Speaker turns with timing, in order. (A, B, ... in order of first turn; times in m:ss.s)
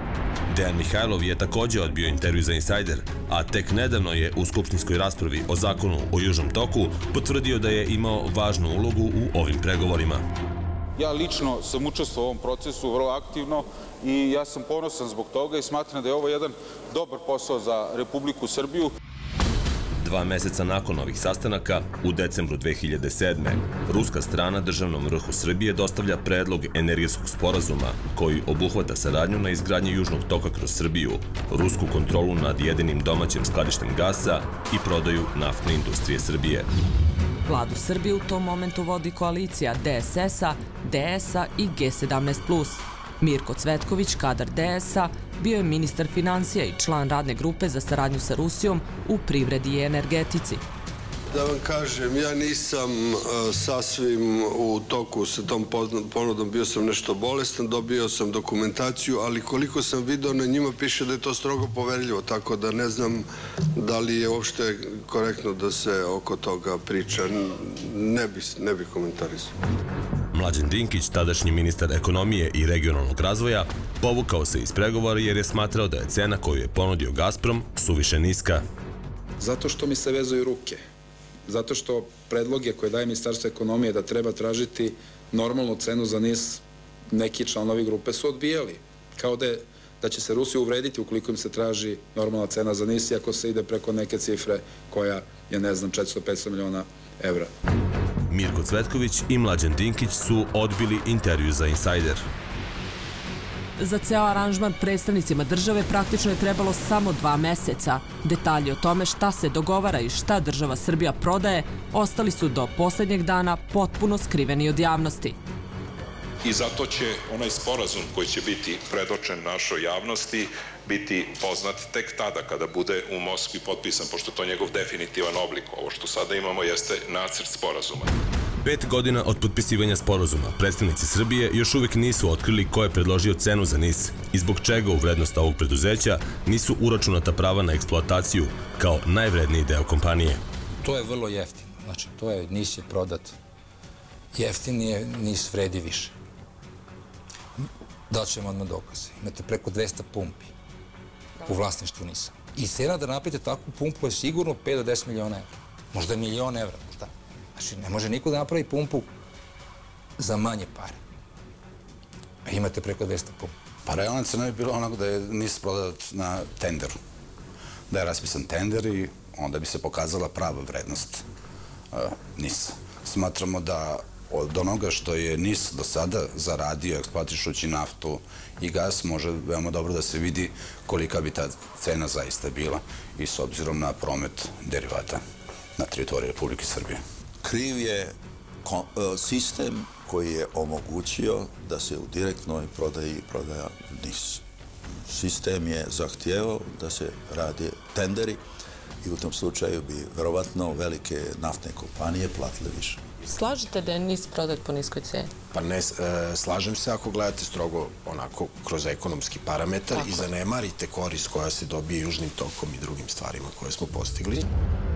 0:00.5-0:10.2 A
0:11.0-0:18.9 B
0:20.0-0:36.7 A
0:37.5-0:50.6 C
0:51.3-1:03.2 D
1:03.8-1:09.5 D
1:10.3-1:18.6 A
1:19.4-1:20.8 E
1:21.5-1:37.5 E
1:38.3-1:42.2 A
1:43.8-1:55.4 C
1:56.4-2:08.1 F
2:08.6-2:20.4 A
2:20.8-2:23.4 G
2:24.3-2:26.1 G
2:28.1-2:30.5 G
2:31.4-2:39.1 G
2:40.2-2:41.0 G
2:42.4-2:43.5 G
2:43.9-2:47.0 H
2:47.9-2:51.2 H
2:51.9-3:05.2 H
3:05.8-3:07.0 H
3:07.4-3:14.4 I
3:15.0-3:18.4 I
3:19.0-3:23.0 I
3:23.2-3:25.3 J
3:25.5-3:34.5 K
3:29.9-3:30.3 J